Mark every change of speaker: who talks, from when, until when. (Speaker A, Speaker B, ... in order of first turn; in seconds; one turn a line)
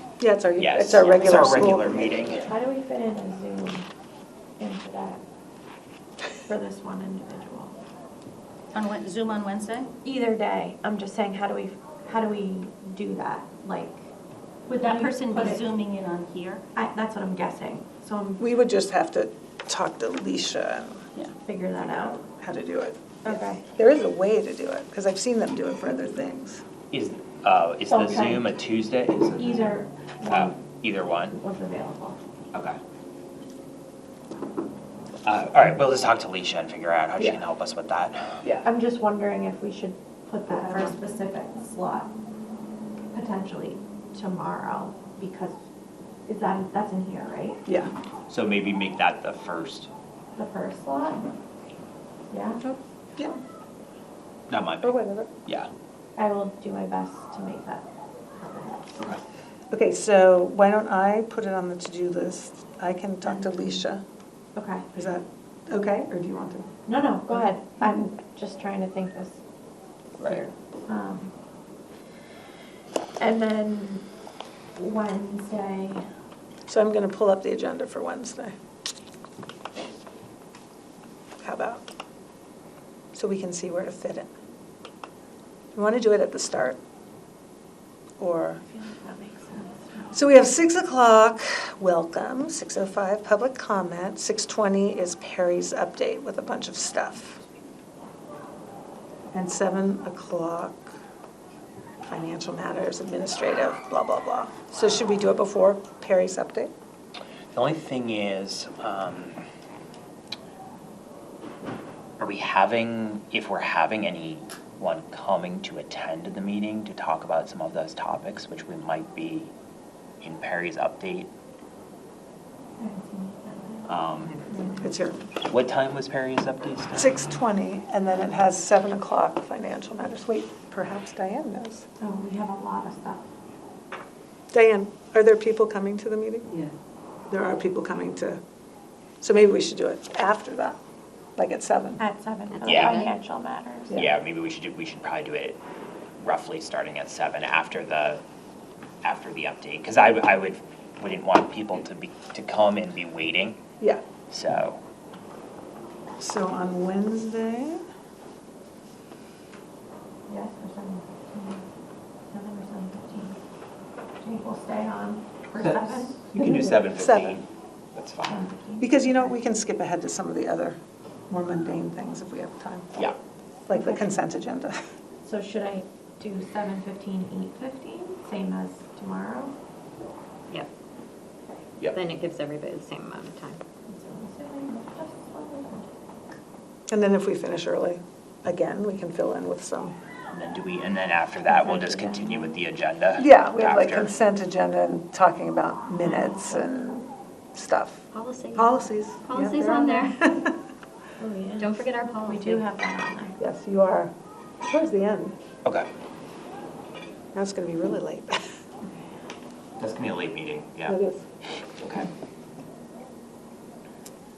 Speaker A: 0.2-2.5
Speaker B: 0.6-2.5
Speaker C: 2.5-3.9
Speaker C: 4.6-5.2
Speaker C: 6.5-7.7
Speaker D: 8.7-9.9
Speaker C: 10.0-14.1
Speaker D: 14.7-16.6
Speaker C: 14.7-15.6
Speaker C: 16.7-18.4
Speaker A: 18.4-21.0
Speaker C: 21.4-22.2
Speaker A: 21.8-26.6
Speaker C: 23.2-23.6
Speaker B: 26.9-31.4
Speaker C: 27.8-28.6
Speaker C: 29.3-30.6
Speaker C: 31.2-32.2
Speaker B: 32.5-32.8
Speaker B: 35.2-38.4
Speaker C: 38.6-42.1
Speaker A: 40.5-40.9
Speaker C: 43.1-45.6
Speaker C: 46.3-47.6
Speaker A: 47.6-47.9
Speaker B: 48.3-49.9
Speaker C: 50.4-51.2
Speaker C: 52.3-53.4
Speaker B: 54.5-55.7
Speaker A: 54.8-55.3
Speaker C: 56.1-59.1
Speaker A: 59.7-64.0
Speaker C: 64.5-64.9
Speaker A: 64.9-66.7
Speaker C: 66.8-69.4
Speaker A: 67.3-67.9
Speaker C: 70.2-71.3
Speaker C: 73.2-74.1
Speaker C: 74.7-76.1
Speaker A: 76.7-78.5
Speaker A: 81.4-81.8
Speaker A: 83.1-84.3
Speaker A: 85.7-86.8
Speaker A: 88.2-88.6
Speaker C: 88.7-90.1
Speaker A: 90.1-97.4
Speaker A: 99.3-101.0
Speaker A: 102.1-106.7
Speaker B: 107.5-109.4
Speaker B: 112.2-119.5
Speaker B: 120.2-121.3
Speaker C: 122.8-124.8
Speaker B: 123.9-124.3
Speaker A: 124.7-125.2
Speaker B: 125.5-127.1
Speaker A: 126.9-131.8
Speaker C: 132.0-133.3
Speaker A: 134.5-136.5
Speaker A: 137.3-138.4
Speaker A: 139.2-140.8
Speaker A: 141.4-142.0
Speaker C: 142.0-144.0
Speaker E: 142.5-143.1
Speaker B: 142.6-143.0
Speaker B: 143.9-145.6
Speaker B: 146.2-148.2
Speaker B: 149.0-153.6
Speaker B: 154.3-154.8
Speaker A: 156.2-157.8
Speaker C: 160.3-161.6
Speaker C: 162.3-163.4
Speaker C: 164.2-166.4
Speaker B: 165.6-168.5
Speaker A: 166.9-167.4
Speaker C: 168.3-169.3
Speaker A: 168.8-170.8
Speaker A: 171.3-172.9
Speaker A: 173.7-174.8
Speaker C: 173.7-174.0
Speaker C: 175.2-179.5
Speaker E: 181.9-183.6
Speaker C: 183.9-185.9
Speaker A: 186.9-189.9
Speaker B: 190.3-194.1
Speaker A: 193.1-198.0
Speaker E: 198.1-200.2
Speaker A: 198.5-200.5
Speaker C: 201.2-203.4
Speaker E: 201.6-202.7
Speaker A: 203.4-204.1
Speaker A: 204.6-205.3
Speaker A: 207.3-208.4
Speaker B: 209.8-211.0
Speaker A: 210.8-211.2
Speaker B: 211.7-212.1